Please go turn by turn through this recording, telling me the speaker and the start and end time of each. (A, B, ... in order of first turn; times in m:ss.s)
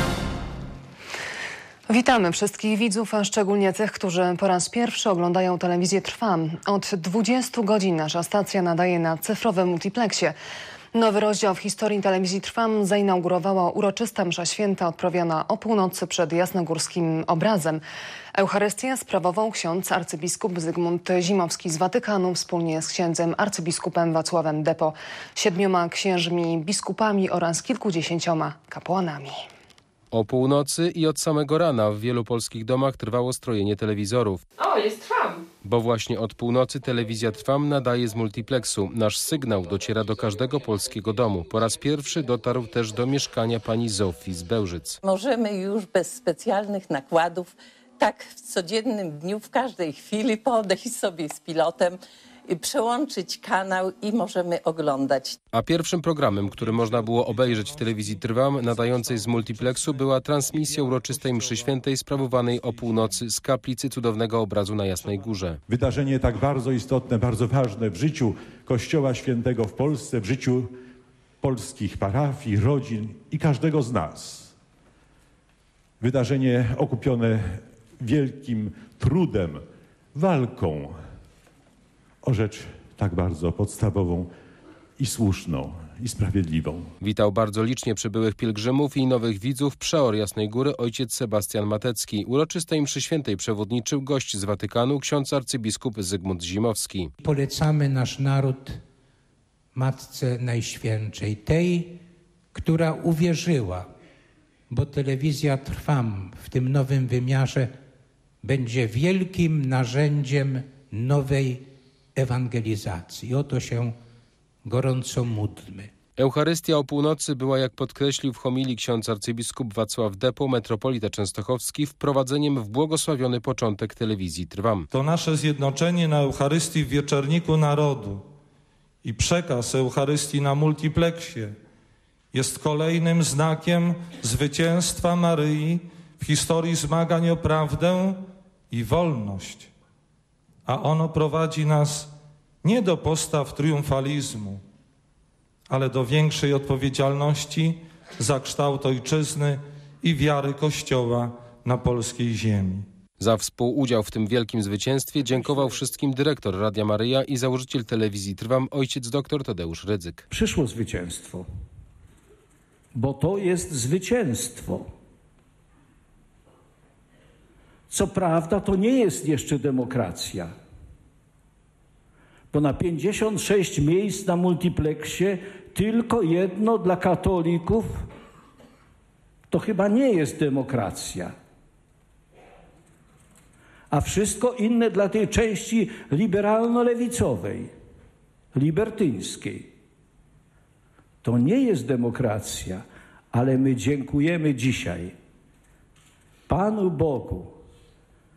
0:01.9-0:10.4 A
0:10.9-0:29.4 A
0:30.1-0:34.4 B
0:35.6-0:45.0 B
0:45.0-0:55.4 C
0:55.5-1:05.6 B
1:05.7-1:10.7 D
1:11.4-1:14.5 D
1:16.0-1:19.6 D
1:20.1-1:21.0 D
1:22.2-1:24.3 D
1:25.0-1:26.9 D
1:27.0-1:37.1 B
1:37.2-1:38.8 E
1:39.8-1:42.0 E
1:42.5-1:43.9 E
1:44.7-1:47.7 E
1:48.4-1:51.6 E
1:52.2-1:54.0 E
1:54.6-1:55.9 E
1:56.2-2:04.9 B
2:04.9-2:08.2 F
2:09.0-2:11.5 F
2:12.3-2:18.2 F
2:18.7-2:19.7 F
2:20.7-2:22.1 F
2:22.6-2:24.6 F
2:25.7-2:32.8 F
2:33.2-2:40.2 B
2:40.3-2:41.4 G
2:42.9-2:44.8 G
2:47.9-2:50.5 G
2:52.5-2:57.9 G
2:59.5-3:01.3 G
3:03.9-3:07.7 G
3:08.6-3:09.7 G
3:11.2-3:15.1 G
3:16.5-3:17.5 G